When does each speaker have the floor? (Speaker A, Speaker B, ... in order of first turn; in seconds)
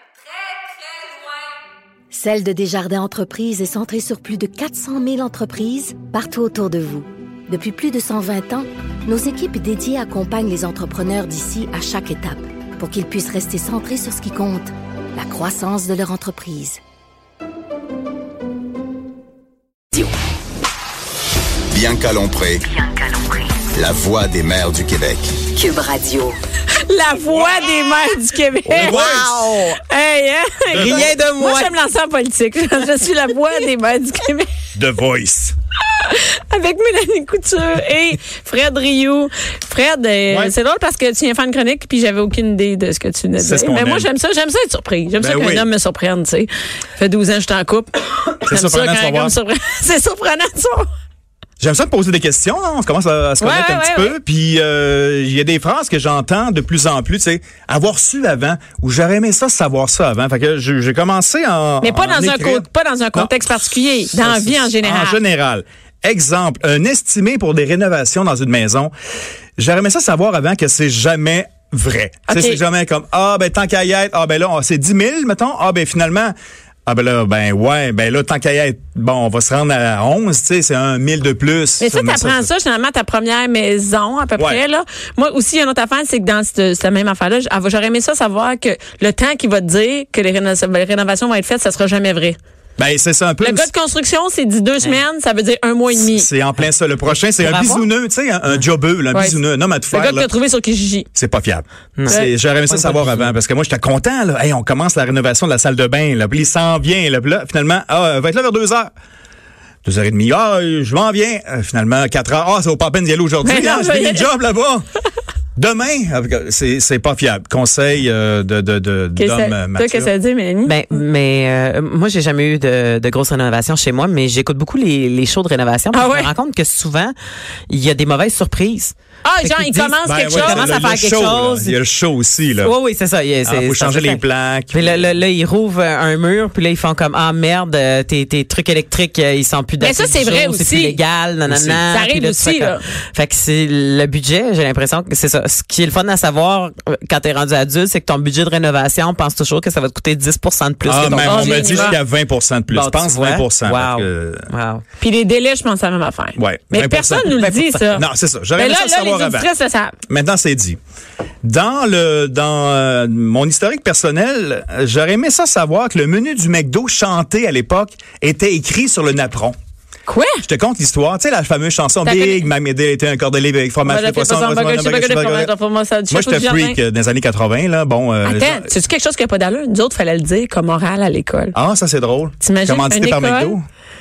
Speaker A: 2.1-16.8, 25.6-26.1
Speaker B: 21.7-22.7, 23.6-25.5
Speaker C: 26.1-26.3, 28.7-29.8, 30.7-31.7, 96.6-97.9, 102.0-103.3, 120.7-127.1, 127.7-128.9, 129.4-131.8, 132.6-152.0, 152.7-154.8
Speaker D: 26.9-29.1, 29.9-34.5, 35.9-50.9, 53.4-54.2, 61.8-65.2, 72.3-72.6, 81.8-92.4, 93.4-96.3, 99.1-101.1, 113.4-114.3, 119.2-120.8, 125.9-126.3, 129.2-130.8, 139.8-141.0, 141.9-142.8, 151.2-152.0, 155.0-159.9, 170.1-170.4, 172.1-172.5, 173.8-176.8, 178.2-181.6, 182.4-183.6
Speaker E: 28.8-29.4, 30.7-31.1, 34.8-35.5, 43.4-44.1, 45.2-45.7, 48.5-49.3, 51.6-63.5, 64.1-68.9, 69.6-76.3, 76.9-82.5, 92.8-93.7, 95.9-100.3, 101.2-108.9, 109.8-114.8, 115.6-120.1, 129.7-132.7, 133.4-135.1, 141.5-141.8, 150.8-154.5, 156.4-159.5, 160.1-160.8, 161.4-169.6, 170.4-175.5, 176.1-178.7, 181.5-183.6